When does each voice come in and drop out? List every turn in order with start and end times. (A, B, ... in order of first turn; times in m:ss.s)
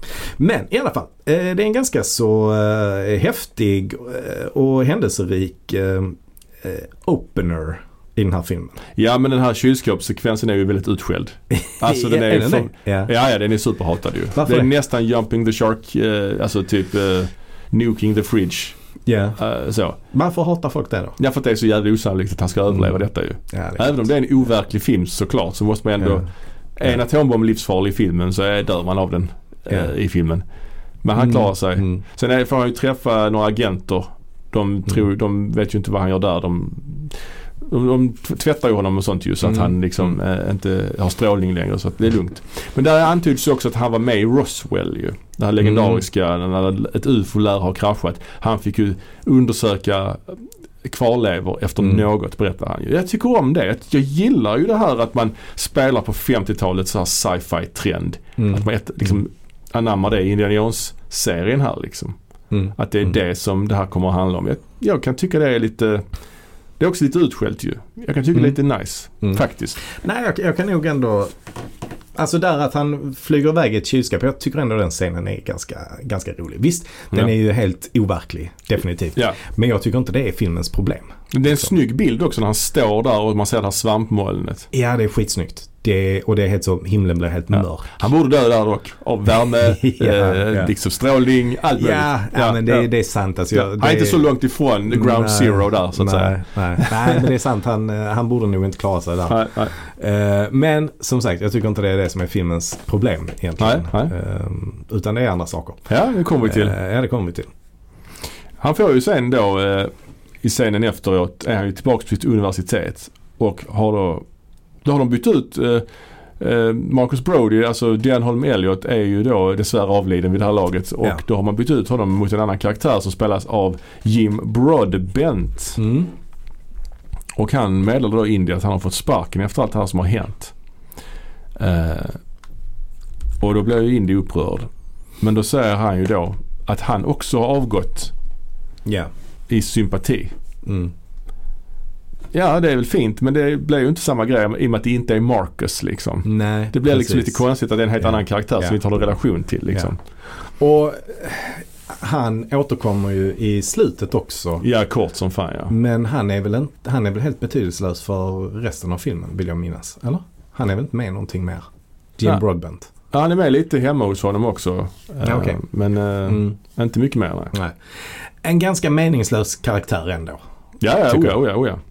0:00.2-0:08.8 A
0:09.0-0:18.8 B
0:11.5-0:13.1 A
0:14.3-0:14.7 A
0:19.0-0:19.4 A
0:19.4-0:20.0 B
0:20.1-0:21.2 A
0:21.2-0:30.4 B
0:23.5-0:24.0 A
0:31.0-1:02.2 B
0:31.2-0:32.0 A
0:39.4-0:39.7 A
0:45.6-0:46.0 A
0:58.4-0:59.2 A
1:02.5-1:03.1 A
1:02.7-1:06.0 B
1:06.8-1:09.8 B
1:09.2-1:11.3 A
1:12.1-1:21.7 A
1:21.3-1:24.7 B
1:24.7-1:27.9 A
1:27.5-1:32.9 B
1:29.6-1:30.7 A
1:31.8-1:34.3 A
1:33.5-1:37.2 B
1:34.9-1:45.9 A
1:39.3-1:39.7 B
1:43.6-1:44.1 B
1:45.9-1:46.7 B
1:46.4-1:47.5 A
1:48.6-1:49.9 B
1:50.4-1:54.2 B
1:54.8-1:55.8 B
1:56.4-2:05.8 B
2:05.8-2:06.1 A
2:07.4-2:10.5 B
2:11.6-2:12.2 B
2:13.4-2:14.7 B
2:15.2-2:18.1 B
2:18.8-2:19.1 A
2:19.5-2:20.3 B
2:20.6-2:20.9 A
2:22.3-2:30.0 B
2:26.2-2:27.4 A
2:28.0-2:28.8 A
2:30.6-2:34.6 A
2:34.6-2:35.7 B
2:35.7-2:41.6 A
2:42.2-2:42.9 A
2:43.1-2:47.5 B
2:45.2-2:45.6 A
2:46.2-2:46.5 A
2:48.4-2:50.4 A
2:50.8-2:51.8 B
2:51.1-2:51.4 A